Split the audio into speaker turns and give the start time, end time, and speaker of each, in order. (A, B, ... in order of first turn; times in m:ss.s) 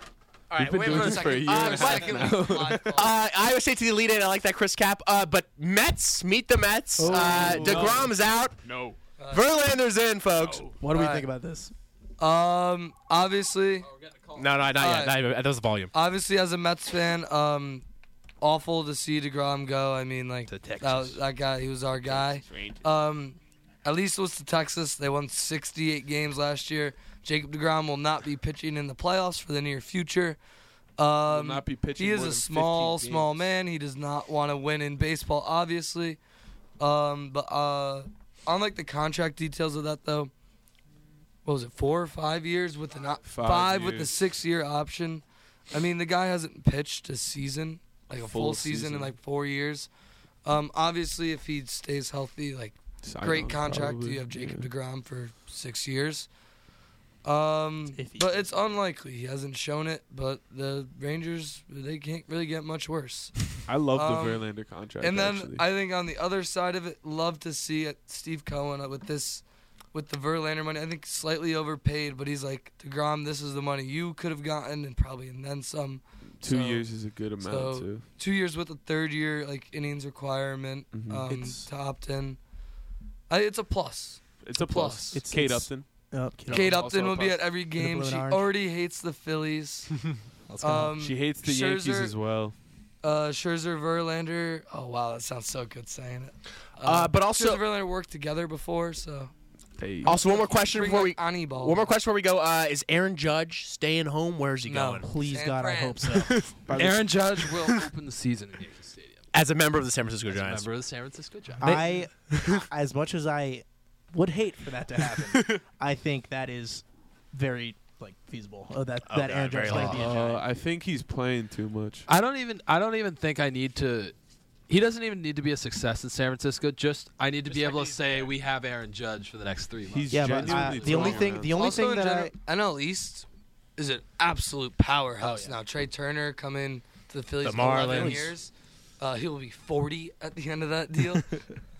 0:00.5-0:02.4 A
0:00.5-0:03.0 B
0:00.8-0:03.1 C
0:02.9-0:08.6 A
0:07.0-0:08.0 D
0:07.1-0:09.0 B
0:09.2-0:09.5 C
0:09.3-0:10.7 A
0:10.8-0:11.7 D
0:10.9-0:11.3 C
0:12.2-0:13.9 C
0:13.8-0:14.7 E
0:14.4-0:15.9 A
0:14.8-0:15.2 C
0:15.9-0:17.8 C
0:18.4-0:30.4 C
0:20.5-0:21.2 D
0:22.0-0:22.8 B
0:31.0-0:36.2 C
0:31.2-0:33.4 B
0:36.8-0:40.3 C
0:41.4-0:49.9 C
0:43.2-0:44.3 B
0:48.1-0:49.1 B
0:50.4-0:56.3 C
0:53.0-0:54.7 B
0:57.2-1:03.3 C
0:57.9-0:58.6 D
1:03.7-1:05.7 B
1:03.9-1:22.4 C
1:16.4-1:18.1 B
1:20.9-1:21.3 B
1:21.3-1:21.7 D
1:23.3-1:25.2 C
1:24.4-1:27.6 B
1:25.1-1:26.8 D
1:26.5-1:29.9 C
1:27.7-1:28.5 D
1:30.5-1:31.0 D
1:30.6-1:32.2 C
1:31.0-1:32.5 B
1:33.0-1:39.3 C
1:36.8-1:37.6 A
1:39.8-1:40.2 B
1:40.0-1:45.1 A
1:40.1-1:41.8 C
1:44.6-1:46.1 C
1:45.0-1:46.8 D
1:46.3-1:47.7 B
1:46.7-1:49.2 E
1:49.3-1:50.6 A
1:50.3-1:51.9 E
1:51.6-2:00.5 D
1:55.2-1:55.6 B
1:59.0-2:00.1 A
1:59.7-2:02.1 B
2:02.1-2:04.1 E
2:04.7-2:11.5 E
2:09.9-2:11.7 B
2:10.1-2:12.3 D
2:11.4-2:13.2 C
2:13.8-2:21.4 C
2:17.4-2:18.3 A
2:17.6-2:18.3 D